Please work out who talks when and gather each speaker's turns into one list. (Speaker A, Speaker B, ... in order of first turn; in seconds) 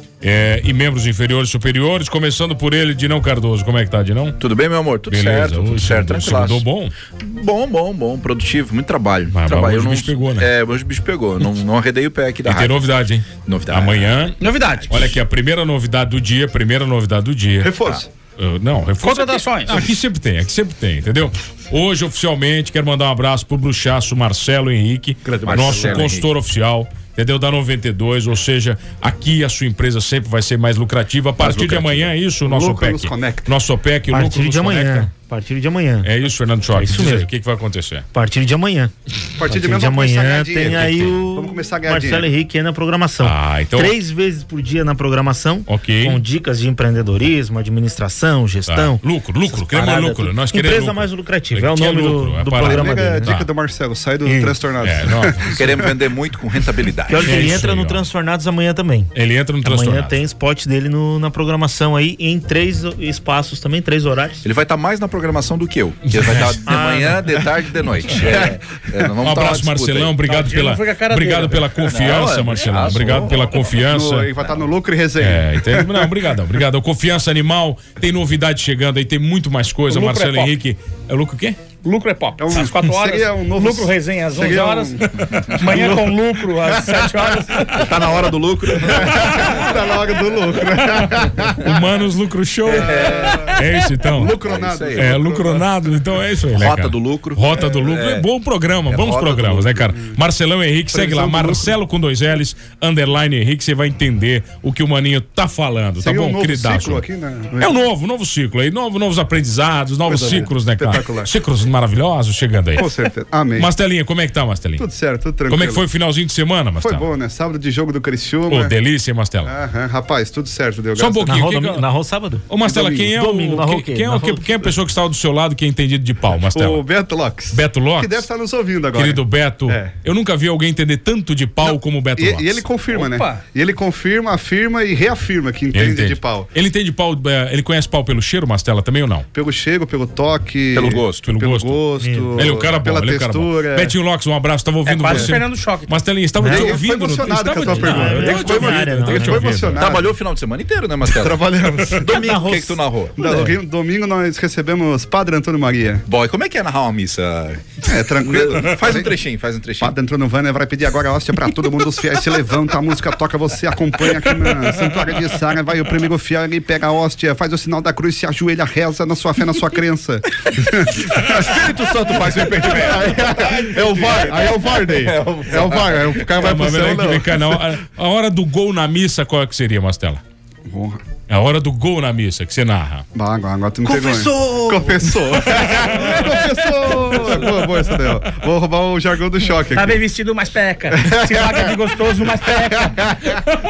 Speaker A: 0.2-4.4, 5.1-6.9, 9.3-10.5, 12.5-14.4, 14.9-35.1, 36.0-38.0, 40.7-41.1, 43.2-44.0, 45.7-46.2, 48.7-53.5, 54.8-55.5, 57.3-58.0, 59.1-60.2, 66.1-66.6, 69.2-74.3, 75.2-81.6, 90.8-94.4, 95.0-107.0, 107.6-112.9, 113.6-114.9, 115.5-117.1, 118.5-119.5, 121.0-121.8, 122.5-126.8, 127.5-128.3, 128.9-132.7, 135.7-139.3, 141.2-141.8, 142.4-149.8, 176.4-180.2, 181.3-183.1
Speaker B: 4.4-6.7, 7.2-12.8, 13.4-14.1, 25.4-26.3, 31.4-32.1, 55.5-57.5, 64.4-70.1, 71.9-73.6, 87.8-89.5, 92.7-93.5, 94.4-95.2, 96.6-98.3, 98.9-99.9, 140.7-141.3, 149.8-153.1, 156.1-159.9, 171.5-176.2
Speaker C: 14.4-15.1, 19.0-19.8, 70.2-71.8, 79.9-80.5, 81.8-87.9, 132.9-133.4, 144.9-146.0, 189.7-193.0
Speaker D: 17.6-18.1, 25.2-26.1, 32.4-33.5, 39.4-42.3, 52.6-56.0, 73.8-76.1, 82.4-87.3, 88.8-91.7, 92.7-95.7, 100.9-101.8, 106.0-107.7, 110.1-111.3, 112.8-113.7, 114.8-115.8, 116.8-118.7, 119.5-121.4, 122.6-123.1, 126.5-129.9, 131.6-136.5, 139.3-143.9, 146.4-150.2, 151.1-152.4, 153.2-156.1, 157.8-159.1, 159.8-177.6, 180.7-181.0, 183.2-190.0, 191.0-191.7, 192.5-193.4
Speaker E: 34.1-36.1, 36.8-37.3, 38.1-38.9, 39.4-53.3, 54.2-54.6, 57.1-64.4, 66.7-67.4, 121.3-122.5, 123.1-124.7, 142.0-142.5, 146.4-146.8, 147.5-149.7, 152.2-153.6, 183.8-185.0